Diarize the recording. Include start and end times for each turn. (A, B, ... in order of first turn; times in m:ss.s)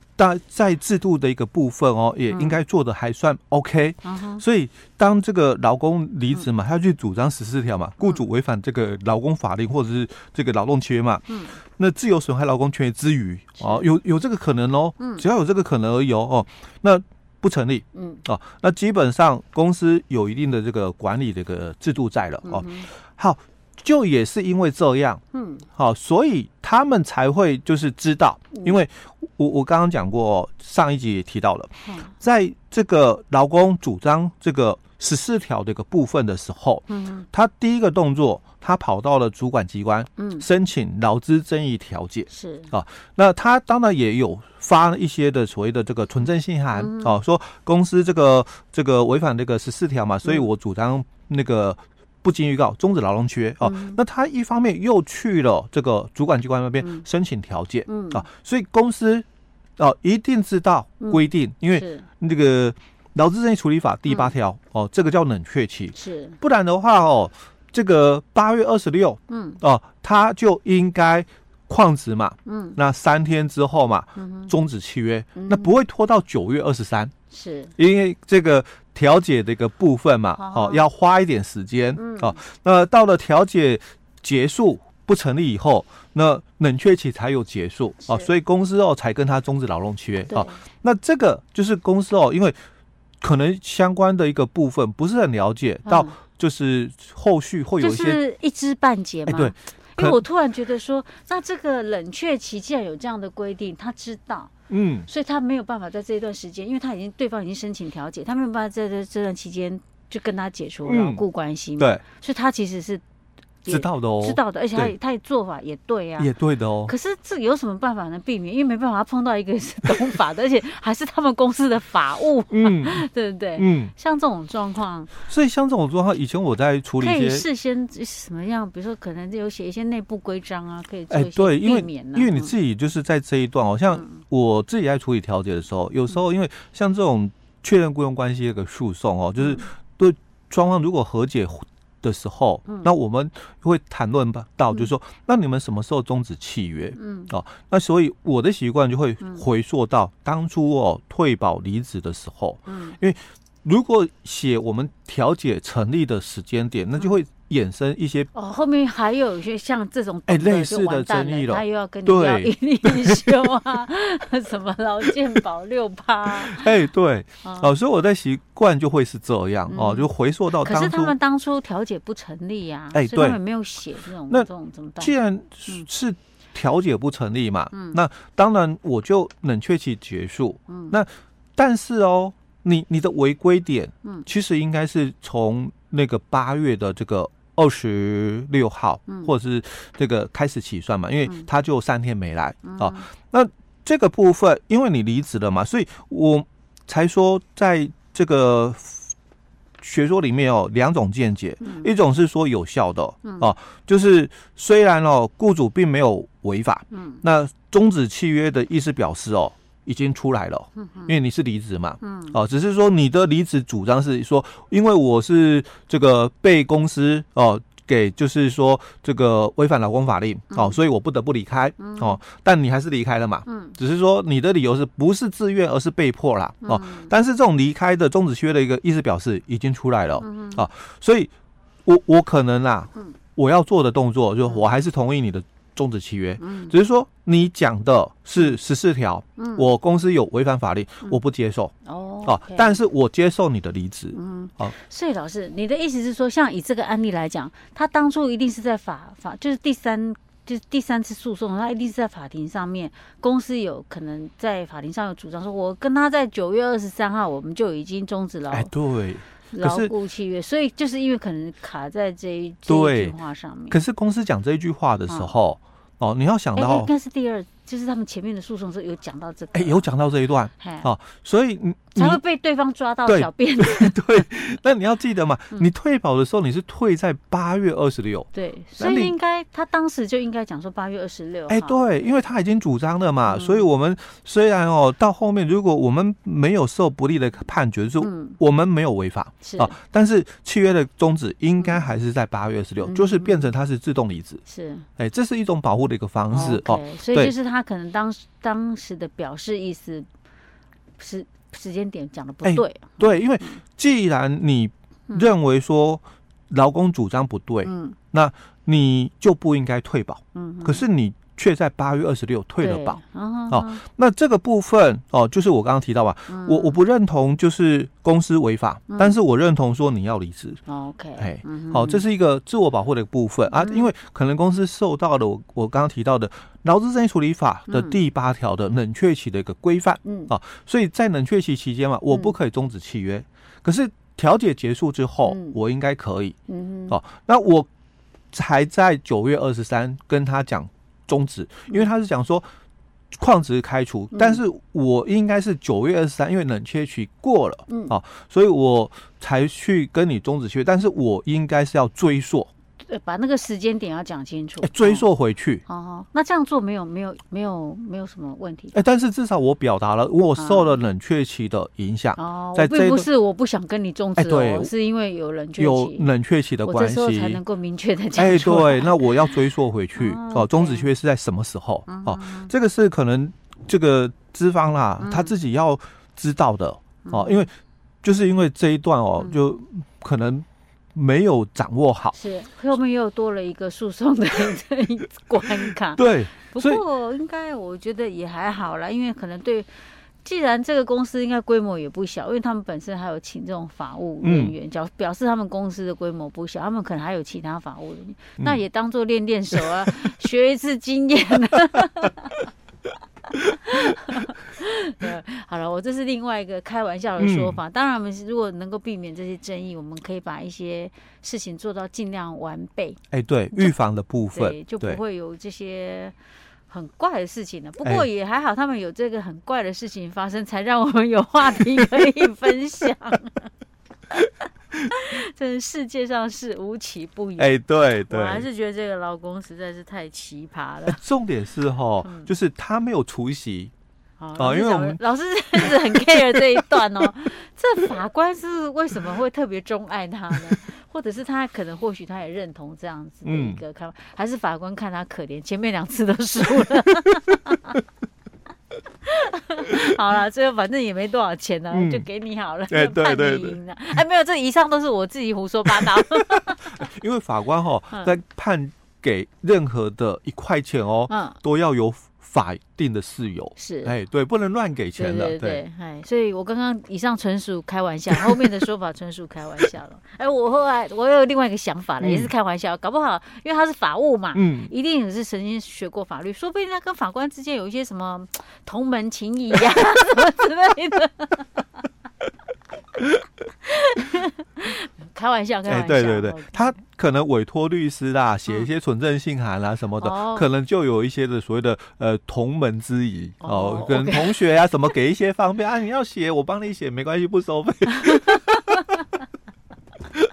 0:00.2-0:25.2 A
0:02.3-0:02.6 B
0:04.0-0:04.4 B
0:11.3-0:11.6 B
0:13.6-0:13.9 B
0:15.0-0:15.2 B
0:17.9-0:18.2 B
0:22.4-0:22.9 B
0:25.3-0:25.6 B
0:25.8-0:59.2 A
0:28.5-0:28.8 B
0:36.9-0:37.2 B
0:40.2-0:40.4 B
0:42.3-0:42.7 B
0:46.7-0:47.1 B
0:53.6-0:54.0 B
0:57.9-0:58.2 B
0:59.8-1:17.1 A
1:01.0-1:02.1 B
1:04.1-1:04.3 B
1:05.9-1:06.4 B
1:09.3-1:09.6 B
1:12.4-1:12.8 B
1:14.2-1:14.5 B
1:15.4-1:15.8 B
1:17.3-1:17.7 B
1:17.8-1:32.5 A
1:20.4-1:20.8 B
1:22.0-1:22.4 B
1:30.3-1:30.6 B
1:33.2-1:38.2 A
1:35.8-1:36.2 B
1:37.8-1:44.5 B
1:39.3-1:40.2 A
1:44.7-1:45.1 A
1:45.1-1:53.0 B
1:50.8-1:51.2 A
1:53.6-1:56.3 B
1:53.7-1:54.9 A
1:56.2-1:56.9 A
1:56.9-2:05.1 B
2:02.5-2:03.0 A
2:03.6-2:03.9 A
2:05.3-2:07.4 A
2:07.0-2:12.5 B
2:11.1-2:38.3 A
2:13.9-2:14.2 B
2:19.4-2:19.7 B
2:27.0-2:27.3 B
2:32.7-2:33.0 B
2:38.3-2:46.7 B
2:40.3-2:43.5 A
2:46.4-2:51.1 A
2:47.4-2:47.7 B
2:49.7-2:50.1 B
2:50.6-2:55.1 B
2:52.9-2:53.4 A
2:55.0-3:19.1 A
2:57.7-2:58.0 B
3:00.7-3:01.0 B
3:12.6-3:13.1 B
3:19.8-3:51.3 A
3:21.6-3:21.9 B
3:23.2-3:23.5 B
3:26.9-3:27.2 B
3:30.8-3:31.1 B
3:32.0-3:32.4 B
3:40.5-3:40.8 B
3:41.8-3:42.2 B
3:43.4-3:43.8 B
3:46.6-3:47.1 B
3:50.2-3:50.6 B
3:51.8-4:01.7 A
3:56.4-3:56.7 B
3:59.4-3:59.7 B
4:01.8-4:02.8 B
4:02.2-4:04.7 A
4:04.1-4:18.7 B
4:18.5-4:19.9 A
4:19.5-4:23.8 B
4:22.6-4:23.1 A
4:23.7-4:26.9 A
4:25.1-4:25.3 B
4:26.6-4:29.9 B
4:29.5-4:32.2 A
4:30.6-4:30.9 B
4:31.9-4:34.2 B
4:33.1-4:39.2 A
4:38.3-4:42.1 B
4:41.5-4:54.4 A
4:43.3-4:43.6 B
4:48.0-4:48.4 B
4:49.4-4:49.7 B
4:52.8-4:53.5 B
4:54.4-4:54.8 B
4:55.0-4:57.3 A
4:56.3-5:00.1 B
5:01.0-5:03.6 B
5:02.4-5:20.6 A
5:07.6-5:08.0 B
5:10.3-5:10.9 B
5:12.6-5:13.8 B
5:16.3-5:16.8 B
5:18.9-5:19.1 B
5:20.7-5:22.0 B
5:21.2-5:36.4 A
5:23.5-5:23.9 B
5:27.7-5:28.0 B
5:30.0-5:30.3 B
5:35.2-5:35.6 B
5:36.5-5:37.0 B
5:36.9-5:37.7 A
5:38.3-5:42.4 A
5:43.1-5:52.5 A
5:44.1-5:44.4 B
5:47.7-5:47.9 B
5:52.8-5:55.0 B
5:54.6-5:55.6 A
5:55.6-5:58.8 B
5:58.7-6:03.1 A
6:00.4-6:00.8 B
6:02.2-6:06.1 B
6:04.2-6:04.7 A
6:05.6-6:07.4 A
6:06.6-6:09.4 B
6:08.2-6:17.5 A
6:10.0-6:10.9 B
6:11.9-6:12.5 B
6:15.0-6:15.3 B
6:17.0-6:17.5 B
6:18.0-6:22.2 A
6:22.1-6:29.7 B
6:26.0-6:26.8 A
6:30.2-6:42.5 B
6:34.2-6:34.5 A
6:43.3-6:53.0 B
6:47.2-6:47.6 A
6:53.1-6:55.0 A
6:54.3-6:56.1 B
6:56.7-7:03.5 B
7:04.9-7:11.0 B
7:07.4-7:08.4 A
7:10.9-7:13.7 A
7:12.0-7:12.3 B
7:14.2-7:27.8 B
7:14.4-7:15.0 A
7:15.6-7:16.8 A
7:23.2-7:23.6 A
7:29.0-7:36.8 B
7:31.7-7:32.0 A
7:32.7-7:33.6 A
7:35.8-7:45.6 A
7:41.1-7:41.4 B
7:43.6-7:43.9 B
7:44.9-8:01.8 B
7:52.0-7:52.3 A
7:54.3-7:54.7 A
8:03.6-8:06.7 B
8:05.6-8:18.6 A
8:10.0-8:10.5 B
8:13.4-8:14.3 B
8:18.0-8:19.0 B